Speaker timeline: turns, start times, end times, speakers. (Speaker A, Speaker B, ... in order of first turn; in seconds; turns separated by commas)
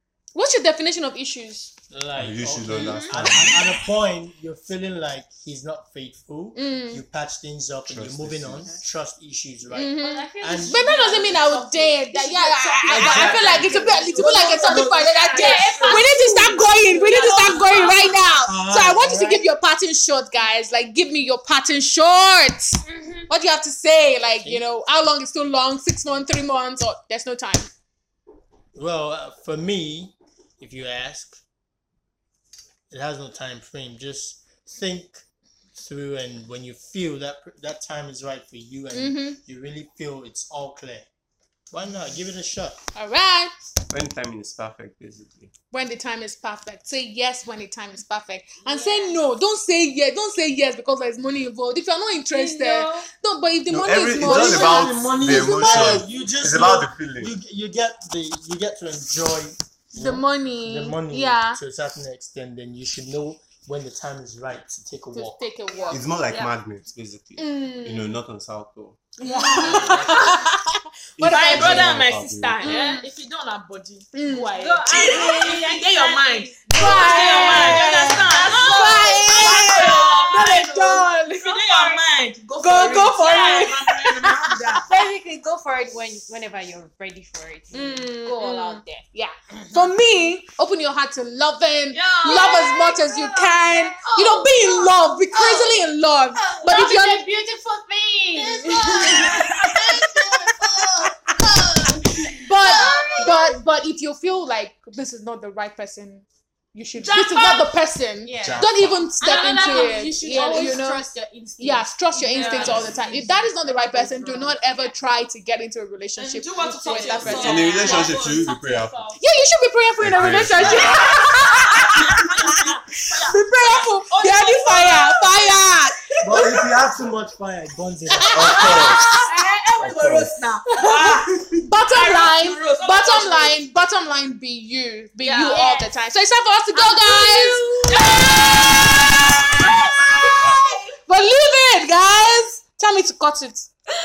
Speaker A: 0.3-1.7, Speaker B: 1.9-10.8, Speaker C: 2.1-3.8, Speaker D: 2.7-3.2, Speaker A: 6.5-7.0, Speaker C: 7.8-8.8, Speaker A: 9.7-27.7, Speaker D: 10.0-18.2, Speaker E: 12.8-18.2, Speaker B: 12.9-13.7, Speaker B: 14.6-15.0, Speaker B: 18.4-19.4, Speaker D: 22.8-23.3, Speaker B: 28.7-31.4, Speaker B: 32.9-41.0, Speaker A: 38.9-39.4, Speaker B: 41.7-42.8, Speaker A: 42.9-43.5, Speaker C: 43.9-45.5, Speaker A: 45.7-56.0, Speaker D: 48.6-49.2, Speaker D: 52.3-53.1, Speaker C: 53.7-57.3, Speaker B: 54.2-65.4, Speaker A: 59.9-61.6, Speaker A: 65.1-66.1, Speaker D: 65.8-66.5, Speaker C: 65.9-69.0, Speaker A: 67.4-68.2, Speaker A: 69.2-72.0, Speaker E: 69.2-70.2, Speaker C: 69.7-70.2, Speaker C: 71.2-72.7, Speaker E: 71.2-84.9, Speaker D: 72.6-73.0, Speaker A: 72.6-73.0, Speaker A: 74.1-74.5, Speaker D: 74.5-80.7, Speaker A: 76.7-81.9, Speaker A: 82.6-84.8, Speaker D: 84.8-89.0, Speaker A: 87.7-97.2, Speaker E: 91.9-93.6, Speaker D: 92.2-95.8, Speaker D: 96.4-101.1, Speaker E: 98.3-100.8, Speaker A: 98.6-100.1, Speaker D: 101.8-103.5, Speaker A: 102.3-111.1, Speaker E: 102.5-103.5, Speaker D: 107.0-107.7, Speaker E: 107.1-107.5, Speaker D: 108.2-115.0, Speaker C: 108.4-109.1, Speaker E: 110.3-110.8, Speaker A: 111.6-118.0, Speaker E: 112.3-113.0, Speaker E: 116.2-119.1, Speaker D: 116.6-118.2, Speaker C: 117.2-119.2, Speaker A: 119.2-126.7, Speaker C: 120.0-121.2, Speaker E: 121.6-125.6, Speaker E: 126.1-126.7, Speaker B: 126.2-128.8, Speaker A: 128.1-129.3, Speaker C: 128.3-129.1, Speaker E: 128.5-133.6, Speaker C: 129.8-130.4, Speaker A: 130.8-131.1, Speaker C: 131.3-131.6, Speaker A: 131.6-138.9, Speaker E: 135.2-135.7, Speaker D: 135.3-135.9, Speaker D: 136.7-140.6, Speaker E: 137.9-138.9, Speaker A: 139.7-143.7, Speaker E: 140.0-140.7